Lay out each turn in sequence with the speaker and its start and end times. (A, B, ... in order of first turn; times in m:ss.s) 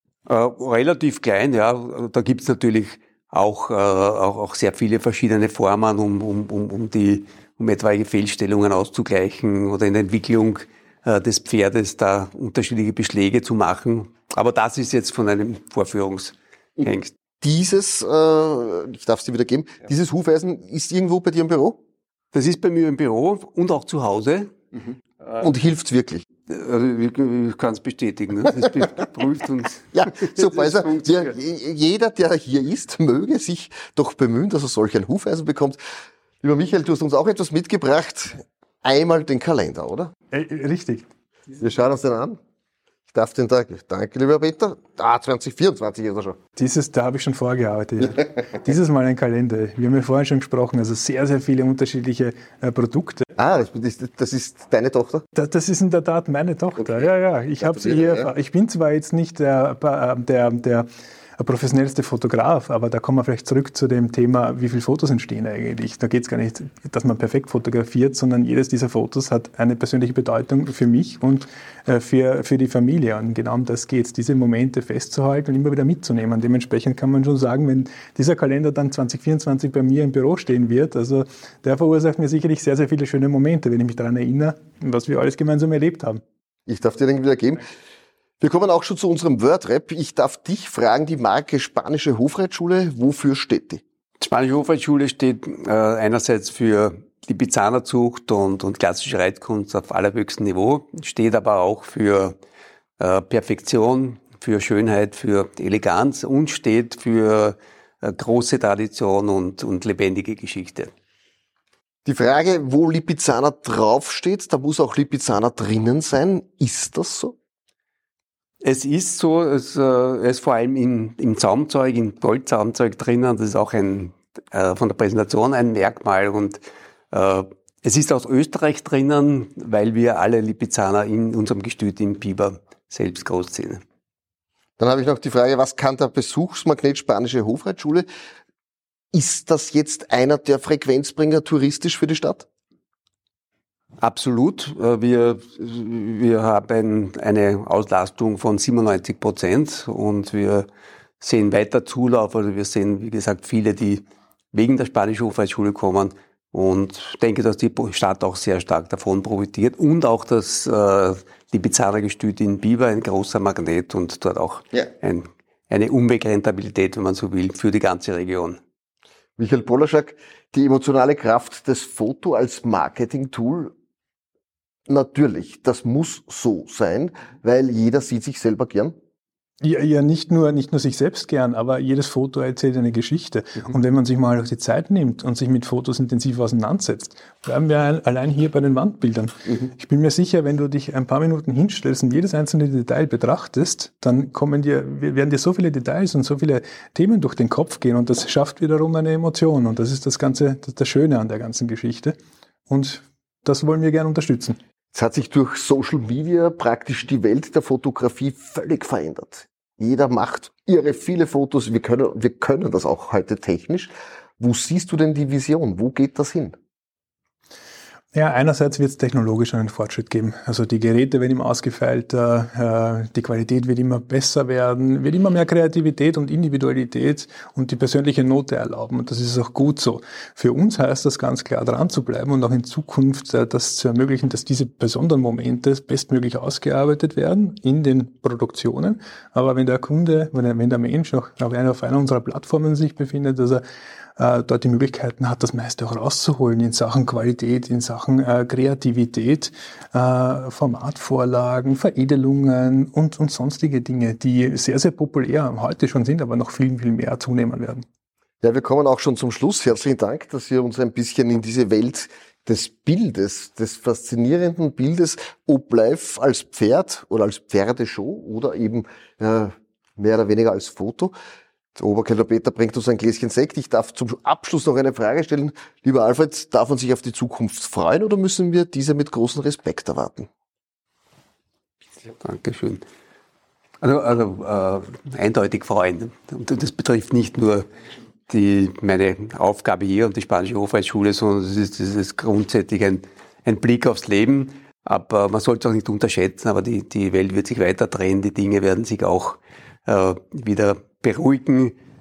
0:00.3-0:17.1 A
0:17.4-0:21.8 B
0:22.3-0:24.5 A
0:25.4-0:26.2 B
0:26.5-0:31.3 A
0:29.9-0:35.8 B
0:36.4-0:40.1 B
0:40.3-0:41.1 C
0:41.6-0:42.4 B
0:43.1-0:46.4 B
0:46.6-0:53.3 C
0:53.4-0:55.2 B
0:55.4-1:00.9 C
0:56.8-0:57.0 B
0:57.6-0:58.3 B
1:01.4-1:26.2 C
1:26.7-1:27.7 B
1:28.4-1:33.8 B
1:34.2-1:42.4 A
1:43.0-1:50.9 A
1:52.0-1:57.4 B
1:58.6-2:06.6 A
2:07.1-2:13.8 A
2:14.8-2:18.1 B
2:19.1-2:22.5 B
2:24.0-2:30.7 A
2:31.2-2:48.6 A
2:49.4-2:53.7 B
2:54.9-2:59.0 B
2:59.6-3:22.2 C
3:22.7-3:24.6 C
3:24.9-3:36.6 B
3:38.1-4:03.6 C
4:04.2-4:17.8 C
4:18.4-4:31.1 B
4:31.8-4:40.3 B
4:42.2-4:42.8 A
4:43.8-4:47.7 A
4:48.3-5:01.8 A